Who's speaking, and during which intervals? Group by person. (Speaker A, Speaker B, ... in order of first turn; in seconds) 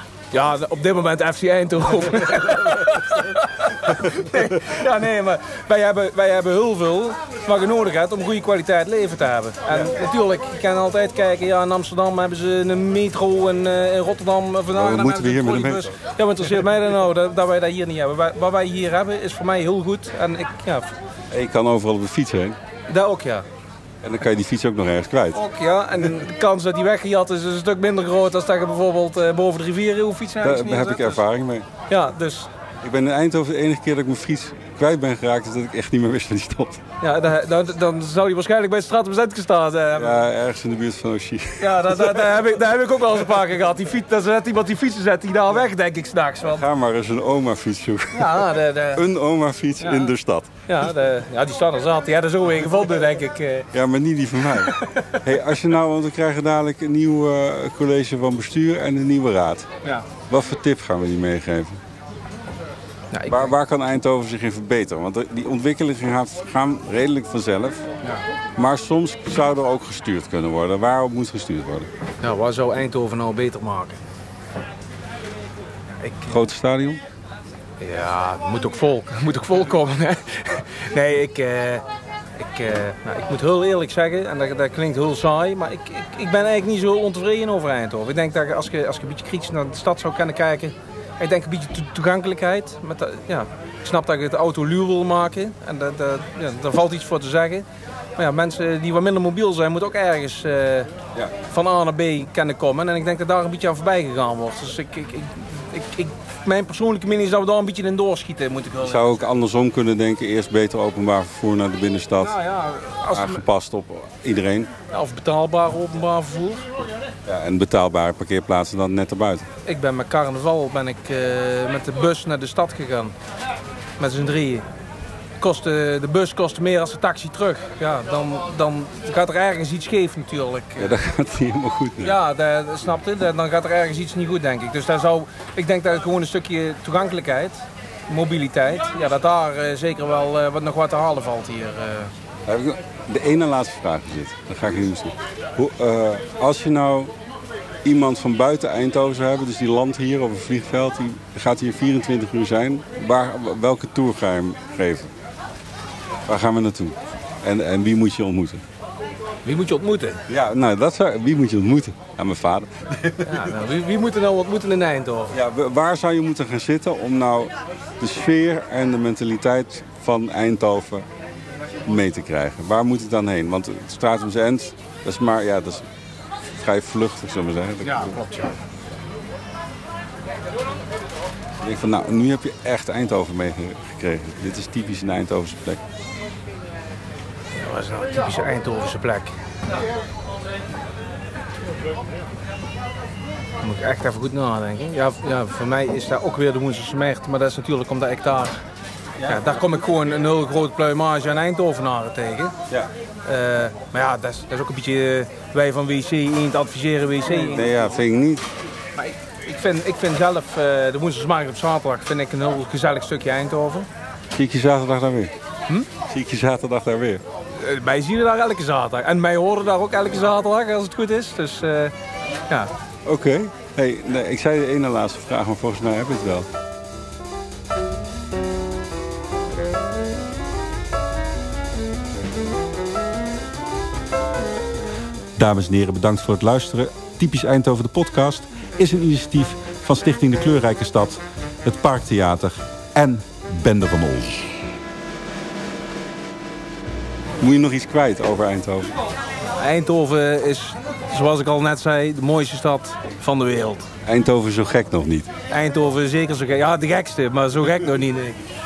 Speaker A: 0.3-20.9, 22.9-23.4, 25.3-31.2, 31.9-32.5, 37.0-40.2, 41.6-46.6, 48.1-49.0, 49.8-50.1, 50.7-53.7, 54.5-55.1, 63.1-63.5, 72.2-74.0, 76.0-76.3, 77.8-81.8, 82.4-97.6, 98.2-109.3, 112.2-113.4, 114.9-116.7, 119.6-123.1, 124.0-124.6, 125.4-130.9, 132.0-142.1, 159.4-160.2, 163.3-165.3, 177.8-178.5, 187.6-189.3, 193.6-198.6, 199.2-202.6, 203.2-207.9, 209.0-213.9, 217.6-221.9, 249.6-253.9, 255.5-258.4
Speaker B: 14.7-15.9, 21.3-22.6, 24.0-25.4, 30.4-31.7, 32.8-36.8, 39.9-42.4, 46.5-50.6, 53.7-59.7, 60.3-61.8, 63.3-67.9, 68.5-71.9, 76.3-77.0, 108.8-112.4, 113.0-114.7, 117.3-119.5, 130.8-132.2, 142.5-147.1, 147.8-155.1, 156.3-158.6, 160.3-163.5, 165.3-171.1, 171.8-175.9, 176.6-178.2, 181.6-185.8, 199.2-199.6, 207.3-208.5, 214.3-215.3, 216.0-217.2, 223.1-226.5, 235.4-244.4, 247.4-248.9, 254.0-255.3